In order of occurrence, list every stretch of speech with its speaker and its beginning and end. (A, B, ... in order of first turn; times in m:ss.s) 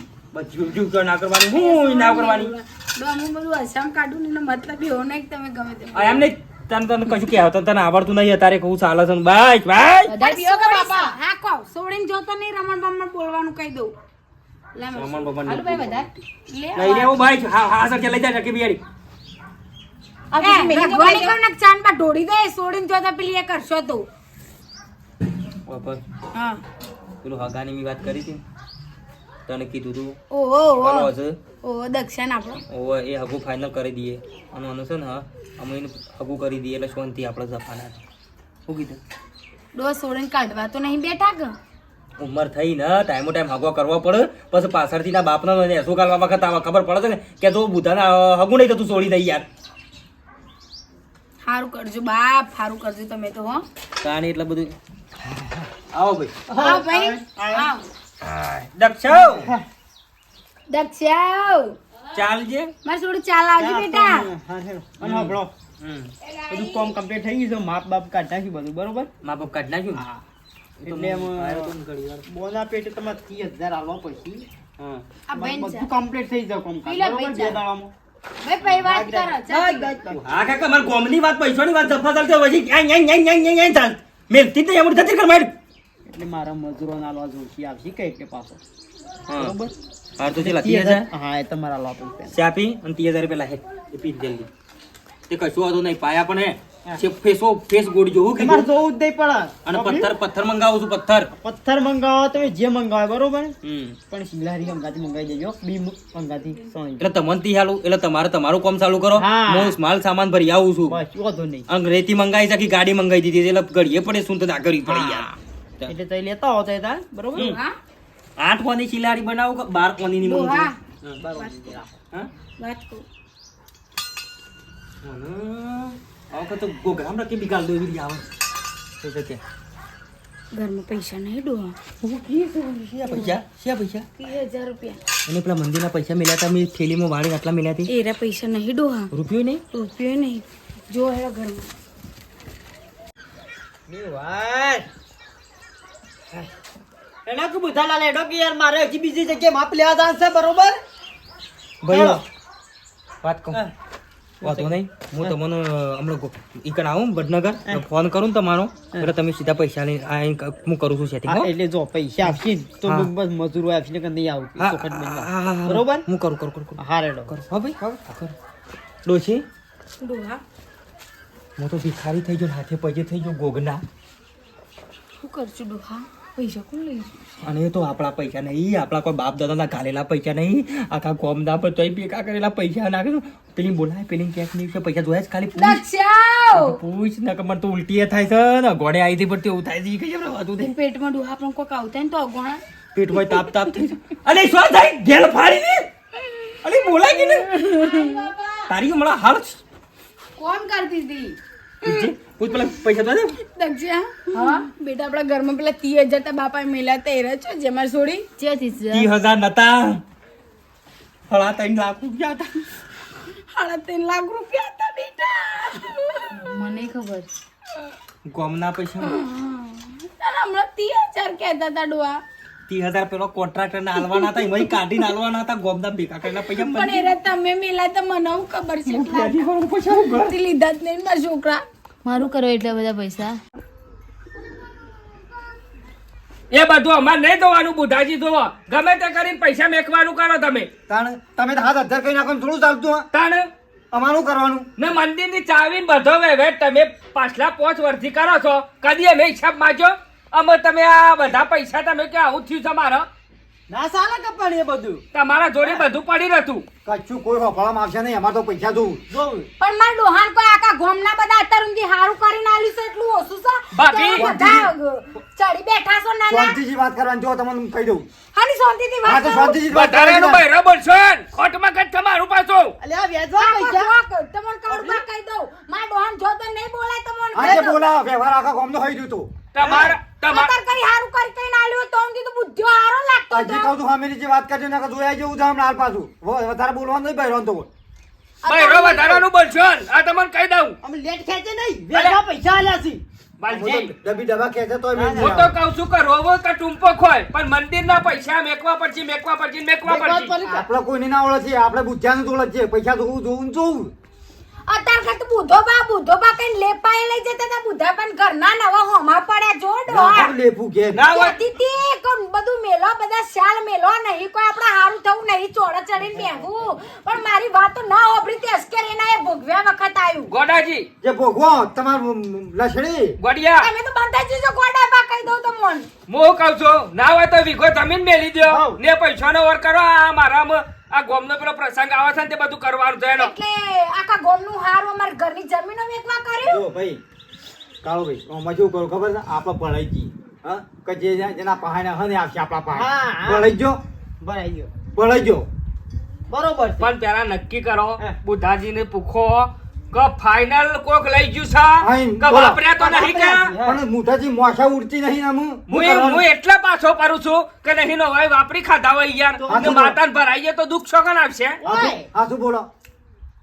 0:00.3-0:02.5 A
0:01.5-0:06.3 B
0:05.9-0:10.2 A
0:10.1-0:11.1 C
0:10.2-0:13.9 B
0:14.8-0:15.2 B
0:14.9-0:18.8 A
0:15.4-0:16.1 C
0:16.5-0:17.1 B
0:20.3-0:21.4 C
0:20.4-0:24.1 B
0:25.7-0:26.0 A
0:26.3-0:26.6 B
0:27.2-0:28.4 A
0:29.5-0:30.2 A
0:30.3-0:32.6 B
0:30.8-0:31.4 A
0:32.7-0:38.0 A
0:38.7-0:39.0 A
0:39.8-0:41.6 B
0:42.2-0:49.5 A
0:51.4-0:53.6 B
0:54.0-0:54.7 A
0:55.9-0:56.7 A
0:56.5-0:57.7 D
0:56.6-0:57.8 B
0:58.2-0:59.5 A
0:59.2-0:59.6 D
1:00.7-1:01.8 B
1:02.1-1:02.7 A
1:02.8-1:04.3 B
1:03.6-1:05.5 D
1:05.0-1:06.1 A
1:06.2-1:06.9 B
1:06.5-1:09.1 D
1:09.2-1:10.0 A
1:09.9-1:10.2 D
1:10.8-1:11.7 D
1:10.8-1:12.2 A
1:12.3-1:17.9 D
1:15.3-1:15.9 B
1:16.8-1:17.6 B
1:18.4-1:20.0 B
1:18.6-1:20.5 D
1:20.1-1:25.6 A
1:26.1-1:28.6 D
1:29.3-1:29.6 A
1:29.3-1:29.7 D
1:30.2-1:31.1 A
1:30.3-1:32.4 D
1:32.3-1:34.5 A
1:35.3-1:38.8 A
1:38.4-1:40.1 D
1:39.7-1:41.3 A
1:41.4-1:43.6 D
1:43.6-1:44.0 A
1:44.1-1:47.1 D
1:47.0-1:51.0 A
1:49.2-1:49.8 D
1:50.9-1:51.7 D
1:51.7-1:55.3 A
1:54.8-1:57.6 D
1:57.3-1:57.8 B
1:58.4-2:01.2 A
2:00.2-2:00.8 B
2:01.2-2:02.0 D
2:01.4-2:01.7 B
2:02.6-2:03.0 B
2:05.0-2:08.3 A
2:09.0-2:09.4 A
2:10.5-2:11.8 B
2:12.0-2:14.1 A
2:14.2-2:15.0 B
2:15.3-2:17.9 A
2:17.9-2:19.1 B
2:19.1-2:19.6 A
2:19.7-2:21.7 B
2:23.9-2:24.9 D
2:27.3-2:30.8 D
2:31.8-2:32.2 A
2:31.9-2:32.2 D
2:33.2-2:33.6 A
2:34.4-2:35.3 D
2:34.4-2:41.5 A
2:41.3-2:46.1 D
2:42.2-2:43.1 A
2:44.6-2:48.4 A
2:46.8-2:47.3 D
2:49.0-2:49.4 A
2:50.0-2:50.4 B
2:51.6-2:53.8 A
2:55.2-2:57.2 B
2:57.4-3:05.8 A
3:05.6-3:06.8 B
3:06.5-3:10.7 A
3:10.6-3:12.6 B
3:12.9-3:15.9 A
3:16.6-3:18.2 A
3:16.8-3:18.7 B
3:18.7-3:19.6 A
3:20.4-3:22.1 B
3:21.8-3:23.3 A
3:23.4-3:28.3 B
3:24.3-3:24.7 C
3:28.4-3:29.1 C
3:28.9-3:30.0 A
3:31.3-3:32.7 A
3:33.5-3:36.4 B
3:36.3-3:37.3 C
3:38.3-3:39.2 A
3:39.0-3:42.2 B
3:42.7-3:47.1 A
3:44.1-3:44.7 B
3:46.4-3:49.4 B
3:48.9-3:50.3 A
3:50.1-3:51.6 B
3:52.0-3:53.4 C
3:56.5-4:00.7 E
4:00.9-4:03.1 F
4:03.1-4:03.5 E
4:03.9-4:04.7 F
4:04.8-4:13.1 E
4:13.7-4:15.0 D
4:15.1-4:16.6 E
4:16.8-4:19.0 F
4:19.1-4:19.5 D
4:19.6-4:26.6 B
4:23.7-4:24.3 E
4:24.2-4:24.7 F
4:26.3-4:28.1 F
4:28.3-4:29.6 B
4:29.0-4:30.4 F
4:29.7-4:32.8 E
4:32.8-4:33.9 D
4:33.4-4:37.8 B
4:34.7-4:35.0 D
4:37.3-4:40.0 F
4:39.5-4:40.5 E
4:40.2-4:43.7 B
4:43.3-4:47.7 F
4:48.4-4:49.2 B
4:48.5-4:50.8 E
4:50.8-4:53.0 D
4:51.9-4:52.2 E
4:53.4-4:53.9 E
4:53.5-4:55.5 F
4:55.0-4:55.4 D
4:55.2-5:00.4 E
4:59.8-5:00.7 D
5:00.4-5:03.9 F
5:04.7-5:10.3 B
5:09.9-5:11.0 F
5:11.0-5:20.3 B
5:11.0-5:11.4 A
5:20.3-5:20.9 E
5:21.0-5:23.2 F
5:23.2-5:23.7 E
5:23.6-5:25.9 B
5:26.1-5:33.3 E
5:28.4-5:28.8 D
5:33.2-5:36.6 B
5:36.5-5:37.0 F
5:37.8-5:43.8 F
5:42.7-5:43.5 D
5:44.2-5:44.7 D
5:44.9-5:45.5 F
5:46.3-5:46.9 D
5:46.8-5:53.5 E
5:51.8-5:52.8 F
5:52.8-5:53.8 D
5:53.6-5:56.2 F
5:55.7-6:01.6 E
5:59.4-5:59.8 D
5:59.5-6:00.0 F
6:01.6-6:02.1 D
6:01.6-6:02.7 F